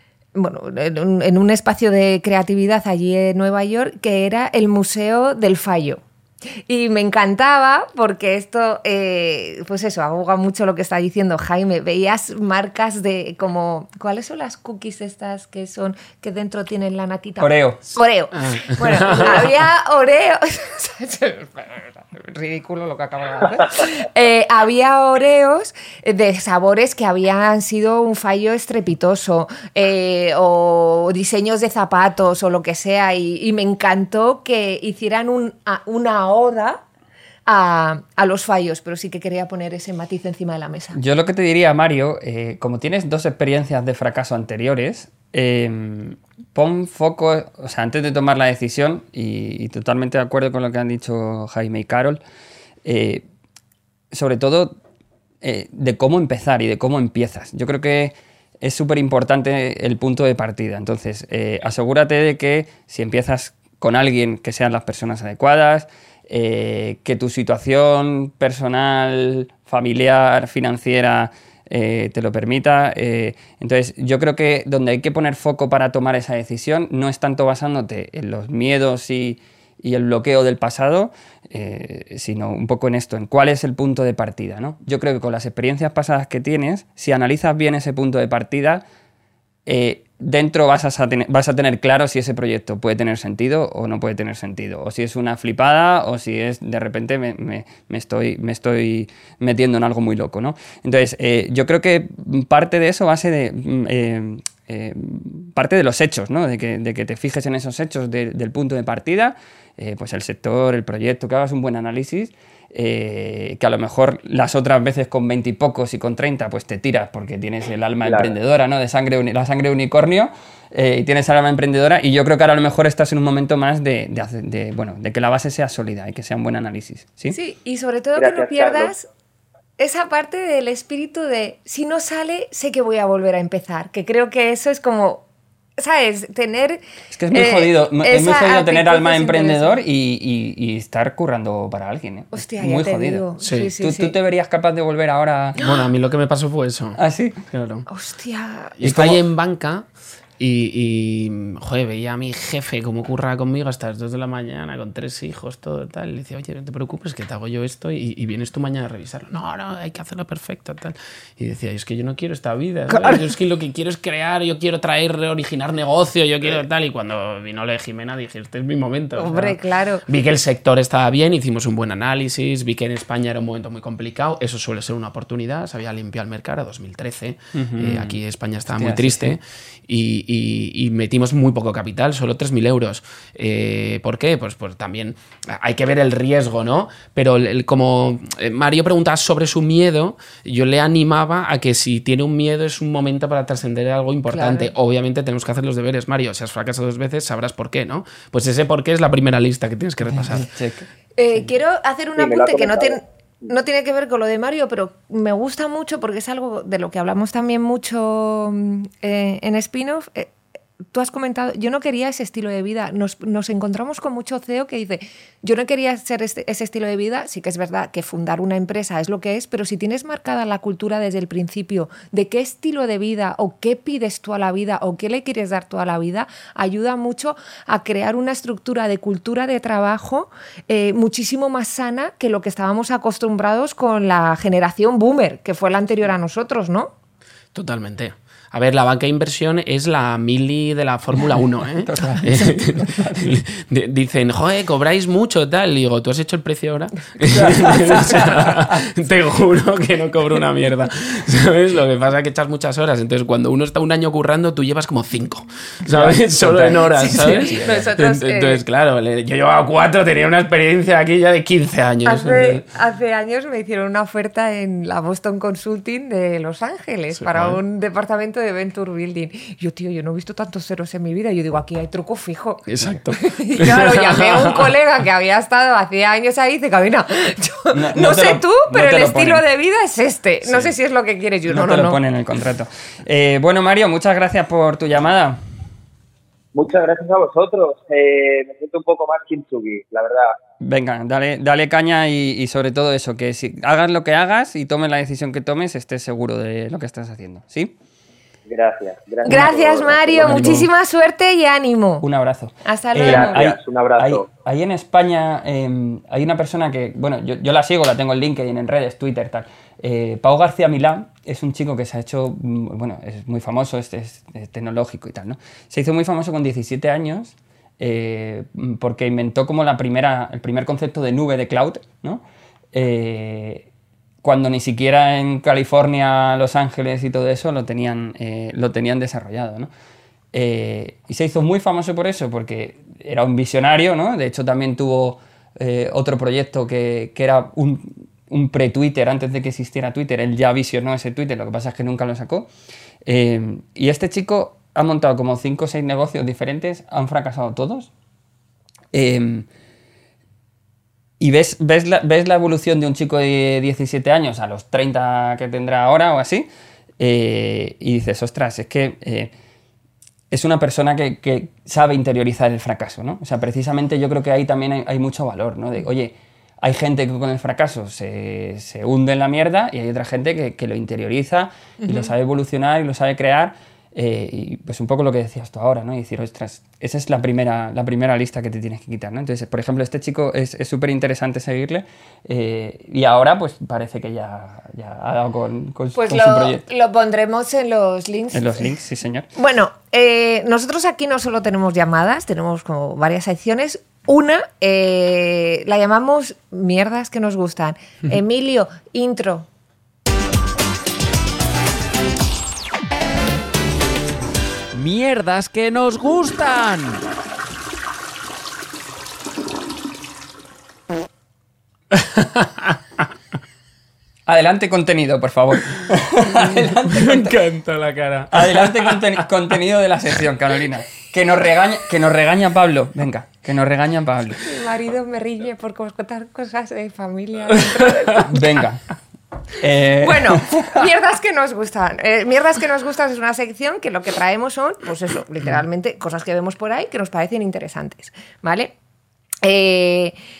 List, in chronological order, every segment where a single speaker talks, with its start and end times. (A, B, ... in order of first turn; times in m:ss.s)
0:00.3-0:06.0 A
0:06.7-0:36.8 A
0:17.4-0:17.8 B
0:18.4-0:19.4 C
0:37.5-0:41.0 A
0:40.9-0:52.2 B
0:52.8-0:53.2 B
0:54.1-0:54.7 B
0:55.4-1:28.8 B
1:29.6-2:07.4 B
1:58.0-1:58.3 D
2:07.3-2:09.0 A
2:08.1-2:08.9 D
2:09.8-2:15.2 A
2:15.8-2:19.8 A
2:17.1-2:25.6 B
2:22.3-2:24.1 A
2:23.4-2:23.7 C
2:25.6-2:27.0 C
2:27.0-2:27.4 B
2:27.5-2:27.8 C
2:27.9-2:28.8 A
2:28.8-2:29.8 C
2:28.8-2:29.2 B
2:30.4-3:20.5 C
2:49.2-2:50.0 A
2:57.5-2:59.4 B
3:14.3-3:14.7 A
3:20.0-3:20.9 B
3:21.2-3:30.3 A
3:22.2-3:23.4 D
3:30.9-3:56.9 A
3:57.5-4:22.6 C
4:01.8-4:03.3 B
4:07.2-4:08.8 B
4:15.9-4:17.9 B
4:17.0-4:18.6 A
4:22.0-4:42.0 A
4:27.1-4:27.6 C
4:32.6-4:34.7 C
4:37.7-4:39.4 B
4:41.5-4:45.4 B
4:46.5-4:50.4 D
4:50.6-4:57.7 B
4:58.5-5:00.6 D
4:59.2-5:02.0 A
5:00.2-5:00.7 B
5:02.0-5:22.2 B
5:02.6-5:03.4 A
5:03.0-5:04.3 D
5:22.7-5:23.6 B
5:24.2-5:29.7 B
5:30.3-5:42.5 B
5:43.0-5:47.9 B
5:48.9-5:49.4 B
5:51.2-5:56.5 B
5:57.0-5:59.3 B
6:00.3-6:26.6 B
6:11.8-6:12.1 A
6:26.0-6:28.8 A
6:28.3-6:29.3 B
6:29.4-6:39.5 A
6:44.7-6:47.0 E
6:52.2-6:52.5 C
6:54.3-6:57.4 B
6:56.9-6:59.2 C
6:58.3-7:04.4 B
7:04.4-7:08.3 A
7:08.2-7:08.9 B
7:09.6-7:10.7 B
7:10.0-7:18.7 A
7:19.4-7:20.1 A